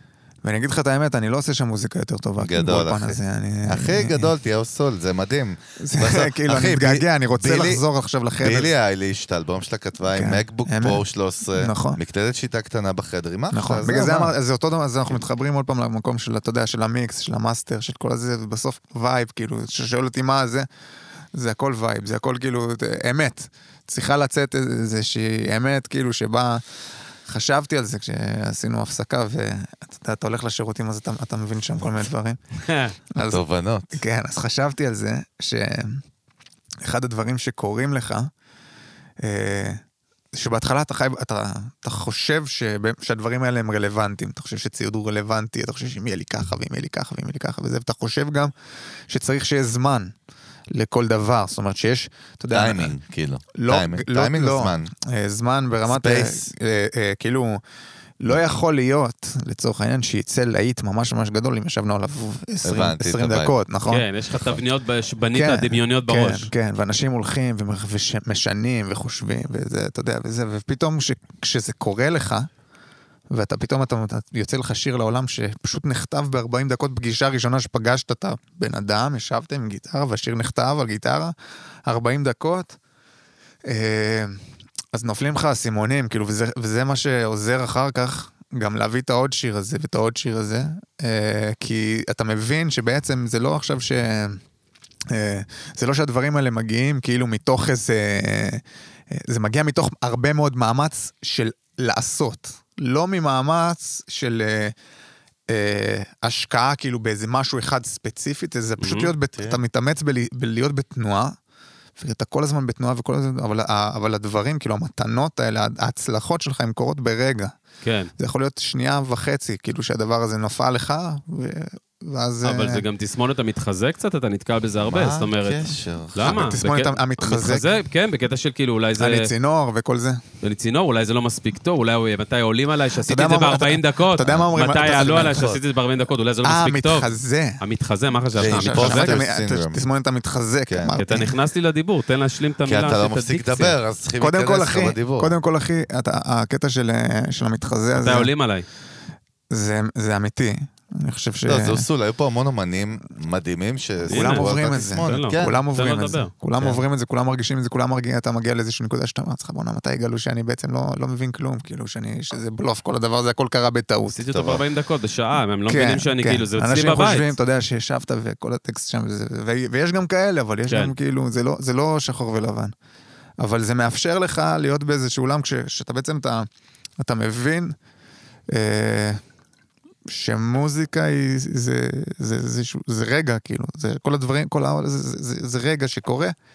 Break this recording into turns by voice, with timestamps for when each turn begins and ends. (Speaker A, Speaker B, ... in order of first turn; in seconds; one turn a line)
Speaker A: 0.4-4.3
Speaker B: 2.4-7.8
Speaker A: 5.8-8.7
Speaker B: 8.4-14.3
Speaker A: 10.1-11.0
Speaker A: 11.5-12.0
Speaker A: 13.5-20.7
Speaker A: 21.3-26.6
Speaker A: 27.2-32.4
Speaker C: 32.6-33.0
Speaker A: 33.1-36.0
Speaker B: 33.2-34.0
Speaker A: 36.8-38.3
Speaker A: 39.2-39.8
Speaker A: 40.3-48.5
Speaker A: 49.1-50.1
Speaker A: 50.7-52.9
Speaker B: 52.5-54.9
Speaker A: 53.5-57.6
Speaker B: 55.8-56.5
Speaker A: 58.2-64.0
Speaker B: 62.6-63.5
Speaker C: 63.9-66.5
Speaker A: 65.3-72.5
Speaker A: 73.3-81.3
Speaker A: 81.8-82.8
Speaker A: 83.7-84.4
Speaker A: 84.9-94.4
Speaker A: 95.1-104.7
Speaker A: 105.5-111.4
Speaker C: 108.8-109.1
Speaker B: 109.3-109.6
Speaker A: 112.0-117.5
Speaker C: 117.8-118.1
Speaker A: 118.2-122.8
Speaker C: 122.4-129.3
Speaker B: 124.8-126.6
Speaker A: 126.2-127.7
Speaker A: 129.0-130.2
Speaker C: 130.4-139.2
Speaker A: 132.9-135.6
Speaker B: 134.2-135.6
Speaker A: 136.4-137.6
Speaker B: 138.3-139.8
Speaker A: 138.4-141.4
Speaker B: 140.7-141.0
Speaker C: 140.9-143.8
Speaker B: 142.6-145.3
Speaker A: 144.2-148.3
Speaker C: 147.9-148.7
Speaker A: 149.5-151.8
Speaker B: 151.4-155.6
Speaker A: 154.1-164.2
Speaker C: 154.1-156.3
Speaker B: 156.6-156.8
Speaker C: 164.1-167.3
Speaker B: 164.3-164.6
Speaker A: 165.7-172.7
Speaker C: 170.7-170.9
Speaker A: 173.4-176.5
Speaker A: 177.0-177.7
Speaker A: 178.5-179.2
Speaker A: 180.1-186.3